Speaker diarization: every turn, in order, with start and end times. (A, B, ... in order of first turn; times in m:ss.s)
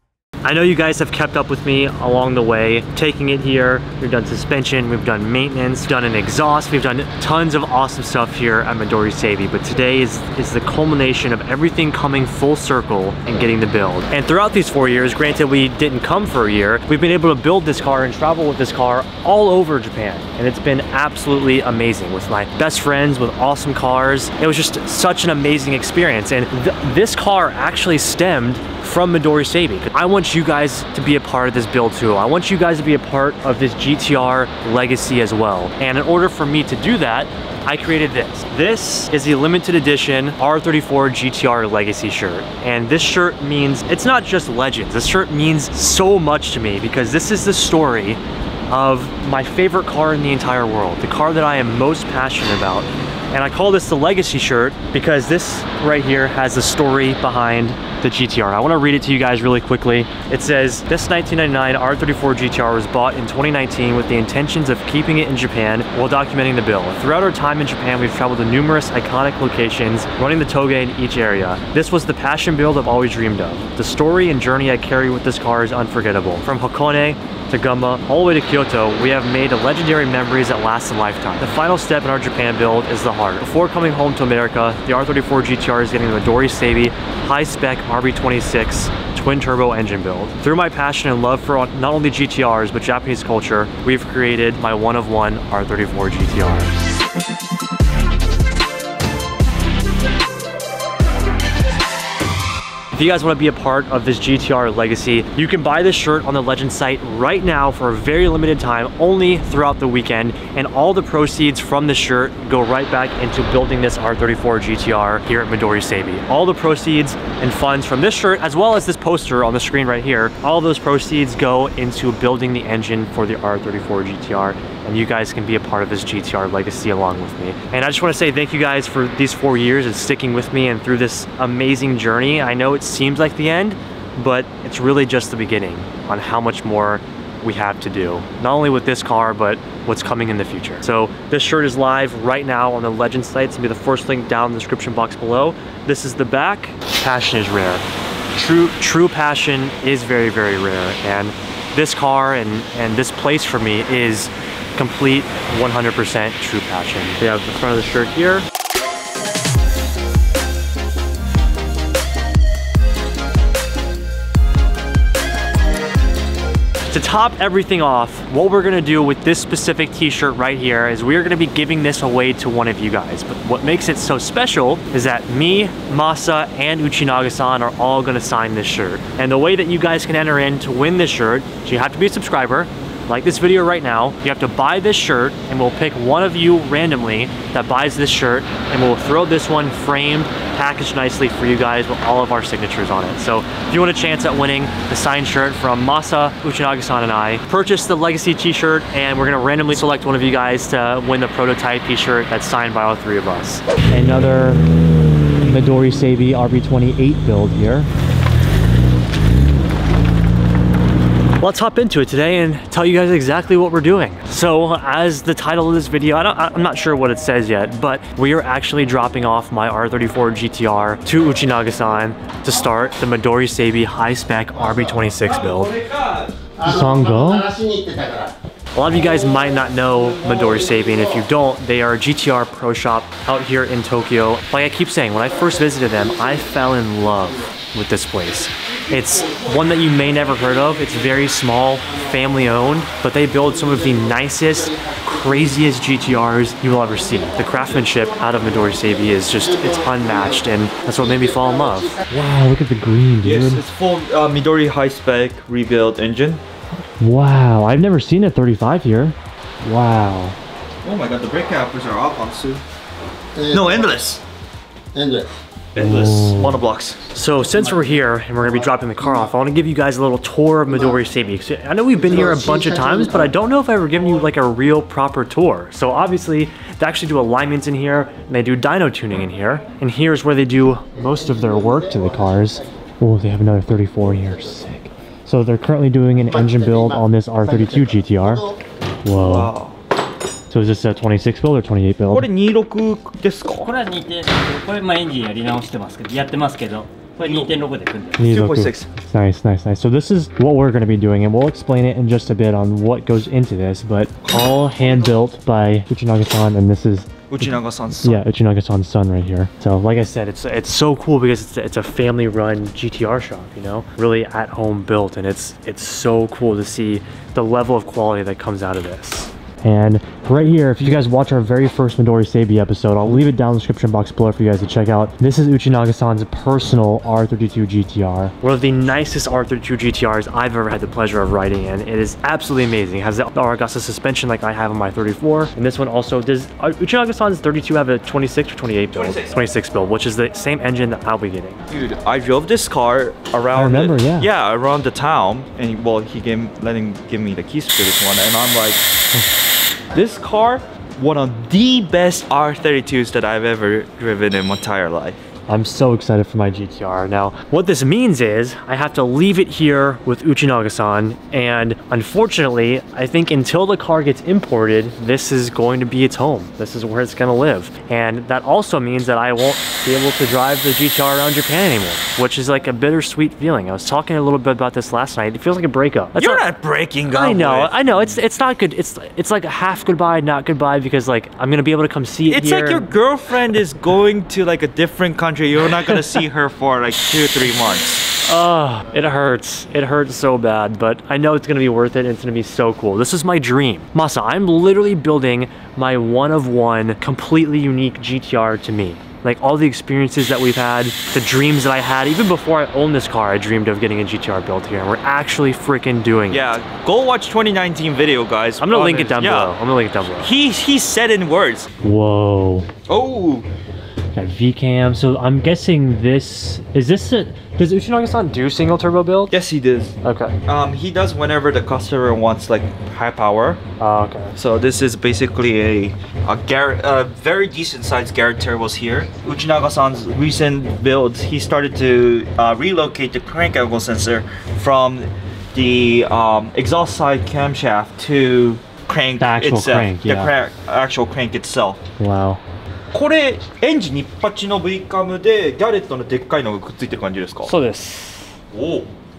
0:00.4-1:36.8 A
1:42.9-2:38.4 A
2:46.9-3:24.6 A
3:25.4-3:27.9 A
3:31.4-3:45.7 A
3:44.6-3:45.0 B
3:45.1-3:46.4 C
3:46.6-3:48.3 B
3:46.6-3:47.5 A
3:48.7-4:13.6 A
4:07.3-4:12.0 B
4:13.2-4:16.4 C
4:17.0-4:20.4 A
4:20.8-4:22.6 C
4:23.3-4:24.0 B
4:23.5-4:24.2 C
4:24.9-4:25.3 B
4:25.7-4:27.0 C
4:25.8-4:26.6 A
4:27.1-4:48.4 A
4:27.4-4:29.3 B
4:30.7-4:31.0 B
4:31.9-4:33.3 B
4:40.9-4:42.7 B
4:46.2-4:48.6 B
4:49.0-4:49.5 A
4:49.1-4:49.8 C
4:50.5-4:52.2 A
4:52.1-4:53.7 C
4:53.5-4:58.2 D
4:57.2-4:57.5 C
4:58.2-5:41.6 A
4:58.2-4:58.9 C
5:04.2-5:05.2 C
5:07.3-5:08.2 C
5:38.9-5:39.4 C
5:41.7-5:48.8 C
5:43.5-5:44.3 A
5:49.9-5:55.2 C
5:55.5-6:16.4 A
6:16.2-6:17.8 C
6:17.1-6:22.9 A
6:22.3-6:28.1 C
6:28.2-6:46.5 A
6:46.3-6:49.5 C
6:48.6-6:50.3 A
6:50.1-6:51.7 C
6:51.8-6:52.7 A
6:52.9-6:53.4 C
6:54.1-6:59.3 A
6:59.3-6:59.9 C
7:00.0-7:00.4 A
7:00.4-7:03.6 C
7:03.8-7:04.3 A
7:04.3-7:21.8 C
7:19.2-7:20.3 A
7:22.0-7:22.4 A
7:22.9-7:27.5 C
7:27.4-7:28.3 D
7:28.5-7:28.9 C